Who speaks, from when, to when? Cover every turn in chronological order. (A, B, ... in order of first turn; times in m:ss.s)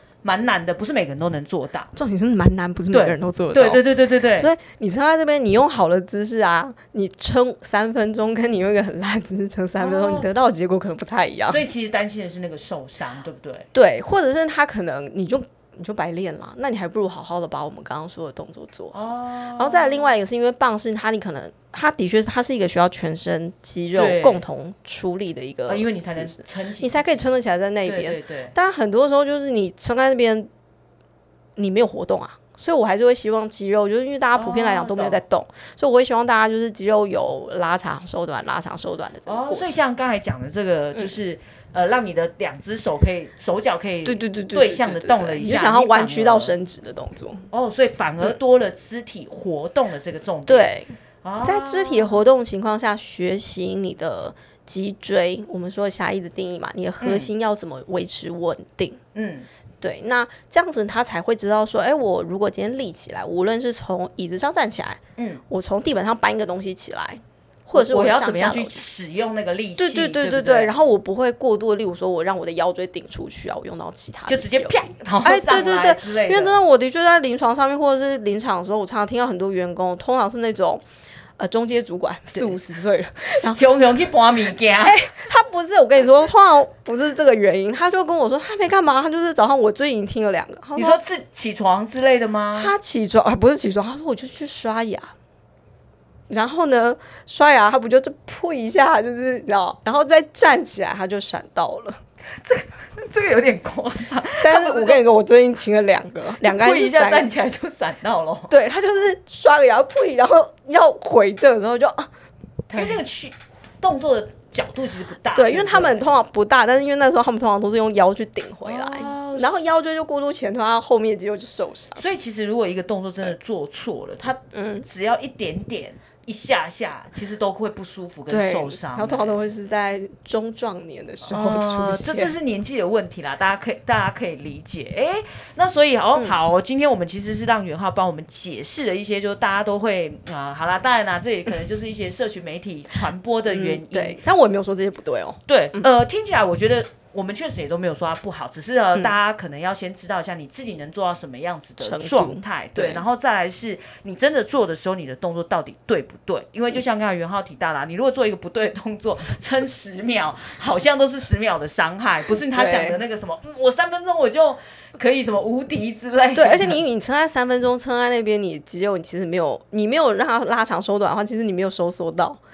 0:00.2-0:01.9 A
0:02.0-0:11.6 B
0:02.9-0:04.5 A
0:09.8-0:10.3 A
0:11.5-0:13.7 A
0:13.7-0:30.5 B
0:18.9-0:20.1 A
0:23.9-0:24.4 A
0:25.7-0:27.2 A
0:27.8-0:28.5 A
0:31.6-0:39.7 B
0:34.3-0:35.2 A
0:39.2-0:46.5 A
0:44.0-0:47.4 B
0:47.5-0:52.2 A
0:50.5-0:59.0 B
0:57.0-0:57.3 A
0:59.1-0:59.5 A
0:59.8-1:08.8 B
1:05.2-1:05.4 A
1:07.7-1:10.7 A
1:09.8-1:20.8 B
1:14.3-1:16.6 A
1:21.4-1:23.6 B
1:23.4-1:25.1 A
1:24.8-1:31.0 B
1:30.8-1:32.7 A
1:32.5-1:35.1 B
1:36.3-1:42.0 B
1:42.4-1:45.0 A
1:44.4-1:47.3 B
1:46.4-1:48.5 A
1:48.5-1:52.1 B
1:52.7-1:53.0 B
1:52.7-1:56.2 A
1:55.3-2:02.0 B
1:58.6-1:59.5 A
2:02.0-2:09.4 A
2:04.5-2:04.8 B
2:08.3-2:12.4 B
2:11.3-2:24.2 A
2:16.1-2:16.4 B
2:23.5-2:25.9 B
2:25.5-2:46.8 A
2:31.8-2:33.0 B
2:42.3-2:43.0 B
2:46.3-2:52.4 B